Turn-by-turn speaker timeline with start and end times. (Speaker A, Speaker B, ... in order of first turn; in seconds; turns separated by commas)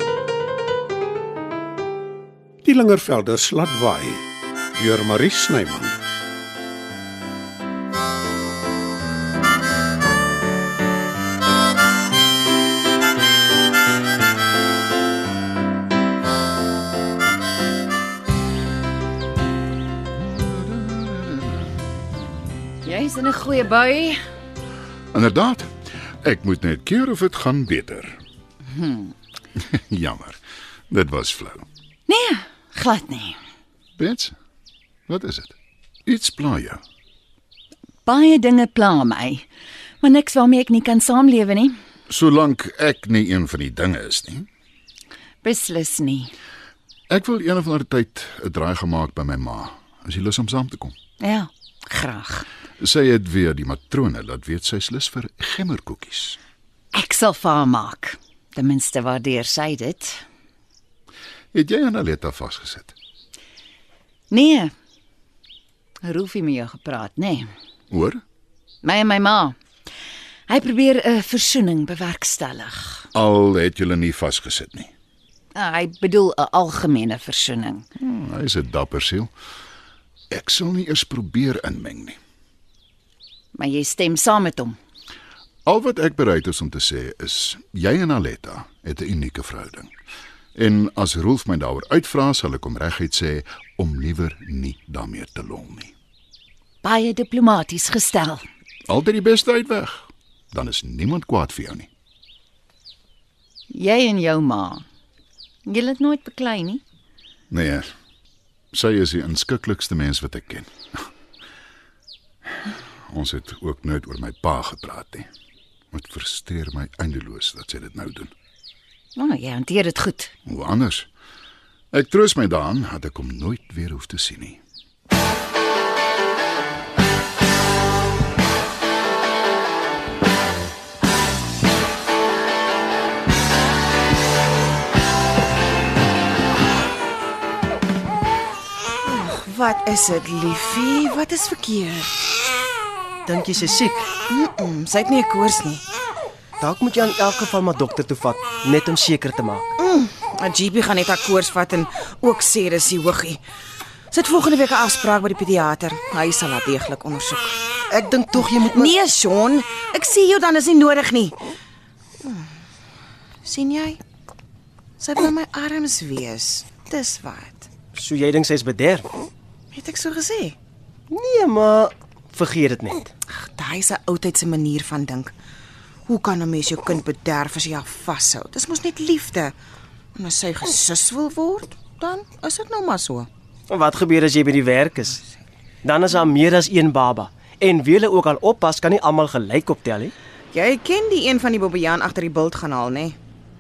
Speaker A: 2.6-5.9, Speaker B: 20.2-21.8, Speaker C: 22.9-24.2, Speaker B: 25.1-25.7, Speaker B: 26.2-28.2, Speaker C: 28.7-29.1, Speaker B: 29.6-30.4, Speaker B: 30.9-31.6, Speaker C: 32.1-33.4, Speaker B: 34.0-34.3, Speaker B: 35.1-35.5, Speaker B: 36.0-36.8, Speaker C: 38.0-39.5, Speaker C: 40.0-41.8, Speaker B: 42.1-44.5, Speaker C: 45.4-46.3, Speaker B: 47.1-51.0, Speaker C: 51.2-52.5, Speaker B: 52.8-56.4, Speaker C: 56.9-60.2, Speaker B: 61.5-62.9, Speaker C: 64.3-64.7, Speaker C: 66.0-67.5, Speaker B: 67.9-68.2, Speaker C: 68.8-69.5, Speaker C: 70.5-73.0, Speaker B: 73.1-74.9, Speaker C: 75.5-77.8, Speaker B: 78.0-79.3, Speaker B: 80.3-82.2, Speaker C: 83.5-84.8, Speaker B: 85.7-89.9, Speaker B: 90.6-95.9, Speaker C: 96.8-98.4, Speaker B: 98.9-101.9, Speaker C: 103.7-104.8, Speaker C: 105.7-106.8, Speaker B: 107.5-107.9, Speaker B: 108.7-111.0, Speaker B: 113.1-115.3, Speaker B: 115.9-118.3, Speaker C: 119.2-120.3, Speaker B: 120.5-121.1, Speaker B: 121.9-124.6, Speaker D: 139.1-142.1, Speaker E: 143.3-144.1, Speaker D: 144.3-145.8, Speaker E: 146.6-149.7, Speaker D: 149.8-153.4, Speaker D: 154.1-157.6, Speaker E: 157.9-158.9, Speaker D: 158.7-161.4, Speaker D: 163.4-164.0, Speaker D: 165.0-167.7, Speaker E: 167.9-169.1, Speaker D: 169.7-170.6, Speaker E: 171.1-173.1, Speaker D: 173.3-175.3, Speaker D: 176.1-179.5, Speaker D: 180.2-183.3, Speaker E: 183.7-185.2, Speaker E: 185.8-190.1, Speaker D: 190.5-193.2